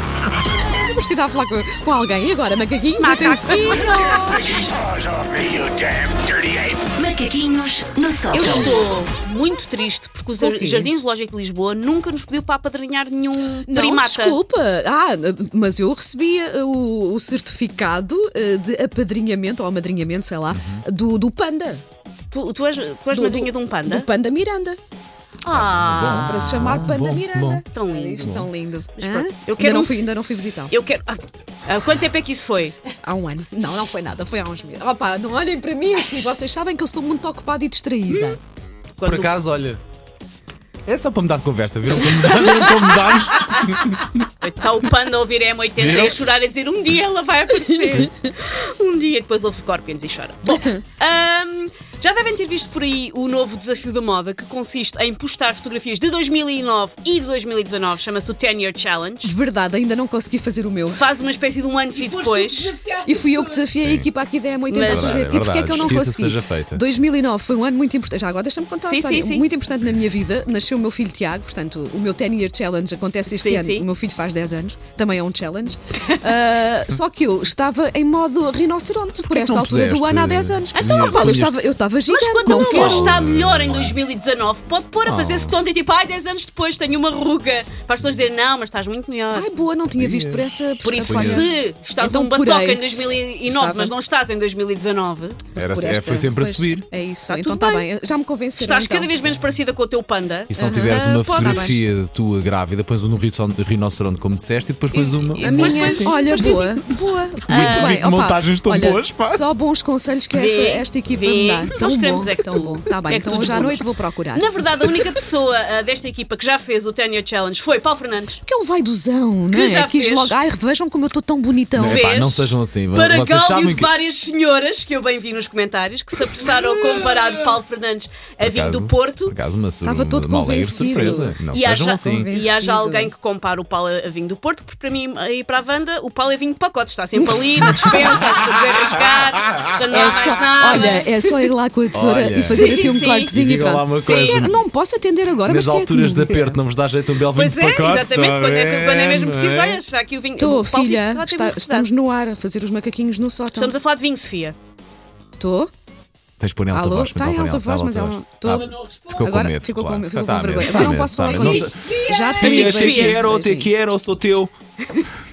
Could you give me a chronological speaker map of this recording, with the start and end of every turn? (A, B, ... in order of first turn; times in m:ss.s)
0:00.7-0:04.2 A
0:03.0-0:04.7 B
0:04.3-0:06.9 C
0:06.9-0:08.8 D
0:08.3-0:14.4 B
0:10.4-0:10.9 A
0:13.7-0:21.8 A
0:20.5-0:20.8 E
0:22.3-0:24.1 B
0:23.1-0:24.8 A
0:25.4-0:26.7 B
0:25.5-0:27.6 E
0:26.0-0:30.7 A
0:27.7-0:30.1 B
0:28.2-0:28.5 E
0:30.7-0:32.8 B
0:33.0-0:38.4 A
0:39.0-0:39.4 B
0:39.0-0:39.8 E
0:40.9-0:44.1 E
0:42.3-0:43.1 B
0:44.4-0:59.3 B
0:45.8-0:46.2 E
0:59.2-1:01.0 A
1:00.9-1:02.8 B
1:02.9-1:23.2 A
1:03.8-1:04.1 E
1:04.7-1:05.3 B
1:04.8-1:06.8 E
1:08.8-1:09.4 B
1:13.3-1:13.8 B
1:19.3-1:21.7 E
1:20.8-1:21.5 B
1:22.1-1:29.5 B
1:22.5-1:24.0 E
1:25.0-1:25.6 E
1:29.3-1:32.9 A
1:29.9-1:30.5 E
1:30.8-1:35.4 B
1:31.0-1:31.5 E
1:33.4-1:33.9 A
1:35.6-1:36.9 E
1:35.6-1:39.1 A
1:37.3-1:37.9 B
1:38.6-1:41.8 B
1:40.5-1:46.1 E
1:40.6-1:41.8 A
1:44.9-1:47.0 B
1:45.4-1:54.6 A
1:47.5-1:48.0 B
1:47.5-1:49.4 E
1:50.3-1:58.4 B
1:58.4-2:02.1 A
1:59.5-2:00.4 B
2:01.8-2:03.9 E
2:01.8-2:09.4 B
2:08.4-2:12.3 E
2:09.8-2:11.4 A
2:10.8-2:21.1 B
2:12.0-2:13.1 A
2:19.9-2:26.6 A
2:21.9-2:24.6 E
2:22.5-2:23.4 B
2:24.0-2:24.5 B
2:25.5-2:29.8 E
2:27.3-2:31.9 B
2:30.4-2:33.8 A
2:33.5-2:34.6 B
2:35.4-2:35.7 A
2:36.4-2:44.5 E
2:36.7-2:43.7 A
2:41.3-2:43.3 B